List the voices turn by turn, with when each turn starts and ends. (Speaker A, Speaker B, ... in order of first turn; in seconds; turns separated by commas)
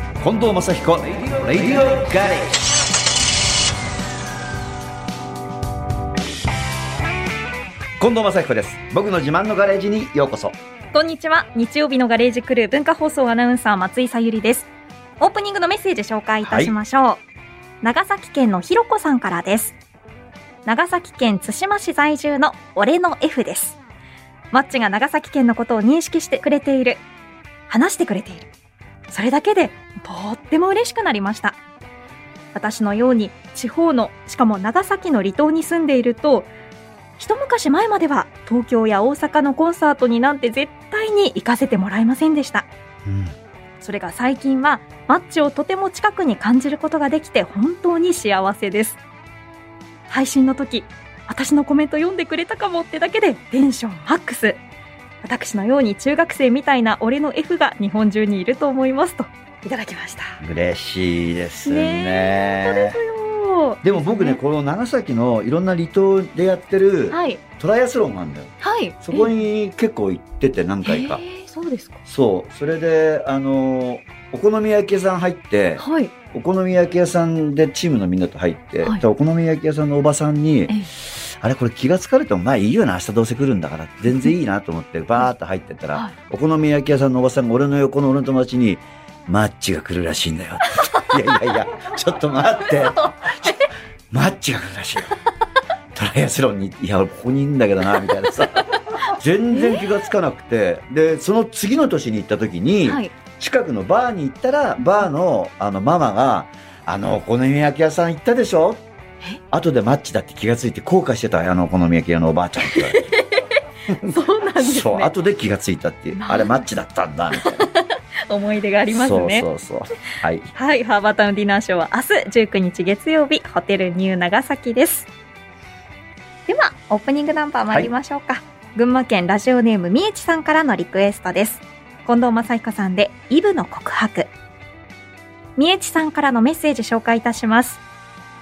Speaker A: 0.2-2.7, Speaker A: 8.0-10.6, Speaker B: 10.9-17.2, Speaker A: 16.4-16.8, Speaker B: 17.8-19.8, Speaker B: 20.7-23.8, Speaker B: 24.5-27.0, Speaker B: 27.7-28.5, Speaker B: 29.1-31.6, Speaker B: 32.5-36.5, Speaker B: 37.2-42.7, Speaker A: 43.1-43.4, Speaker B: 43.8-49.0, Speaker B: 50.1-54.6, Speaker B: 55.2-60.4, Speaker A: 60.4-63.0, Speaker B: 61.6-64.4, Speaker A: 63.8-71.2, Speaker B: 67.1-67.4, Speaker B: 68.6-69.3, Speaker B: 70.8-72.0, Speaker A: 72.0-93.5, Speaker B: 75.8-76.1, Speaker B: 93.0-93.6, Speaker A: 94.1-95.1, Speaker A: 96.0-108.8, Speaker B: 99.5-99.9, Speaker B: 102.9-103.1, Speaker A: 109.5-113.1, Speaker B: 112.6-113.4, Speaker A: 113.9-117.7, Speaker B: 114.1-115.1, Speaker B: 116.2-116.7, Speaker B: 117.3-119.5, Speaker A: 118.9-120.5, Speaker B: 120.5-125.1, Speaker B: 126.5-134.3, Speaker B: 135.6-137.8